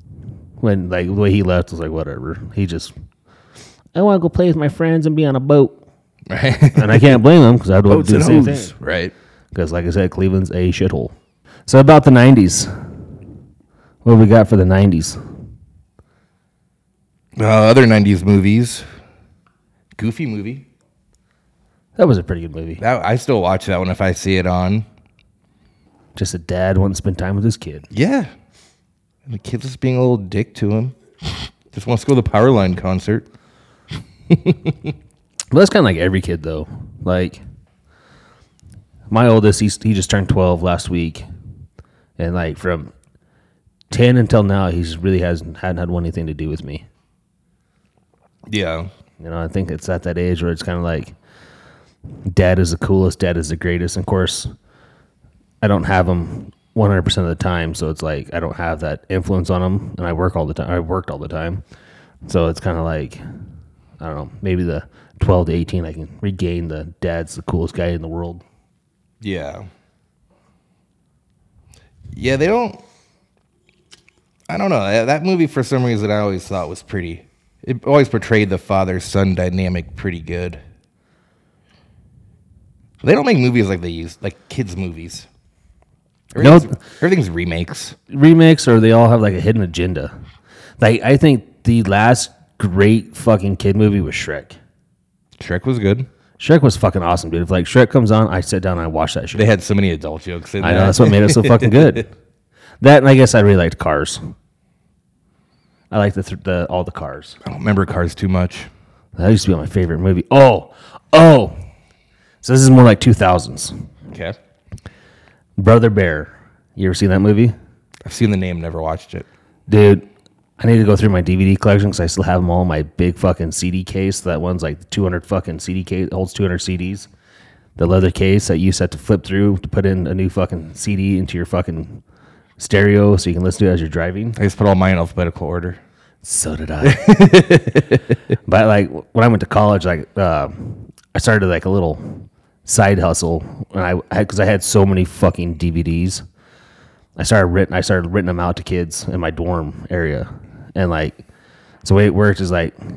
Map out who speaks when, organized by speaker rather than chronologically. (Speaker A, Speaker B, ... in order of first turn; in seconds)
Speaker A: 0.6-2.9, 3.9-5.8, 6.7-8.7, 9.5-11.1, 11.7-12.7, 14.0-15.2, 22.0-22.8, 26.1-27.9, 35.5-37.4, 39.1-41.2, 42.2-42.9, 43.9-46.8, 49.2-51.1, 52.3-54.5, 55.6-61.6, 62.2-63.2, 64.0-68.4, 86.4-86.8, 88.1-90.1, 90.8-94.6, 96.4-99.5, 100.6-102.1, 102.8-104.2, 105.9-107.4, 109.2-111.5, 112.4-113.8, 115.6-117.5, 119.7-120.0, 120.6-127.1, 127.8-132.0, 132.6-134.4, 136.2-137.2, 138.4-146.2, 147.2-151.2, 151.8-152.7
Speaker B: 6.3-7.2, 7.9-9.1, 17.4-18.9, 19.9-20.6, 22.8-24.9, 27.9-28.3, 29.2-33.2, 34.3-34.9, 48.5-48.9, 69.2-69.7, 72.1-72.8, 74.5-80.6, 83.0-85.3, 86.3-88.0, 95.4-96.1, 99.3-102.0, 107.4-108.7, 114.1-114.4, 118.0-119.3, 134.4-135.8, 136.8-138.1